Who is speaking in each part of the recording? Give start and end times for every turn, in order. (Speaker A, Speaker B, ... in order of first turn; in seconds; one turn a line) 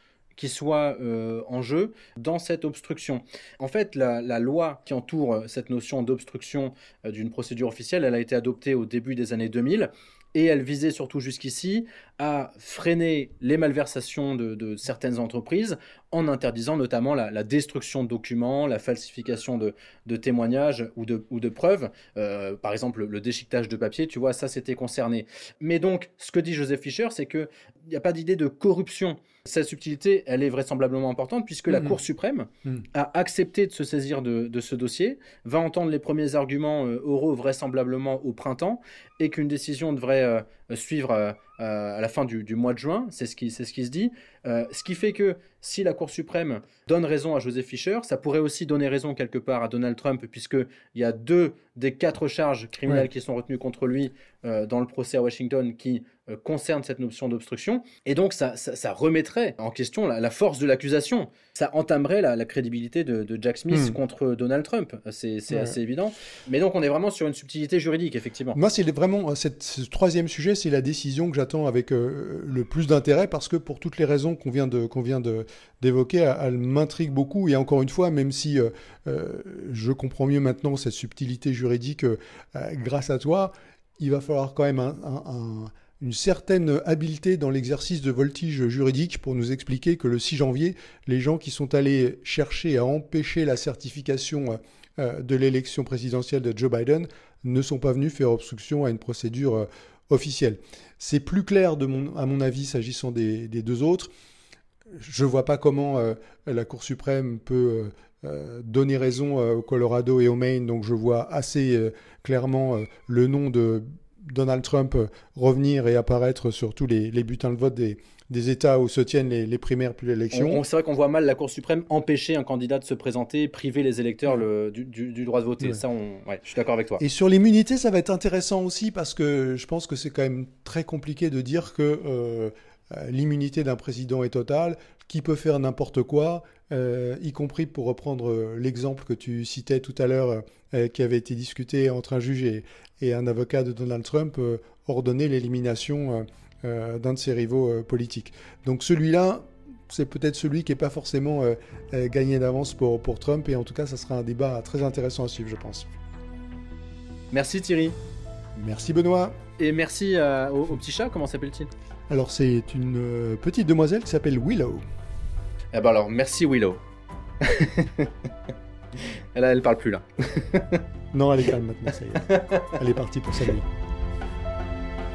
Speaker A: 0.3-68.6
Speaker B: 31.7-32.0
Speaker B: 63.7-64.0
Speaker B: 65.5-65.8
Speaker B: 68.5-104.1
Speaker B: 104.9-120.6
Speaker A: 120.3-127.0
Speaker B: 127.0-155.9
Speaker A: 157.3-157.9
Speaker B: 158.6-159.3
Speaker A: 159.6-161.7
Speaker B: 162.1-164.8
Speaker A: 165.7-166.8
Speaker A: 167.4-168.1
Speaker A: 169.0-170.8
Speaker B: 171.1-173.7
Speaker A: 172.2-172.7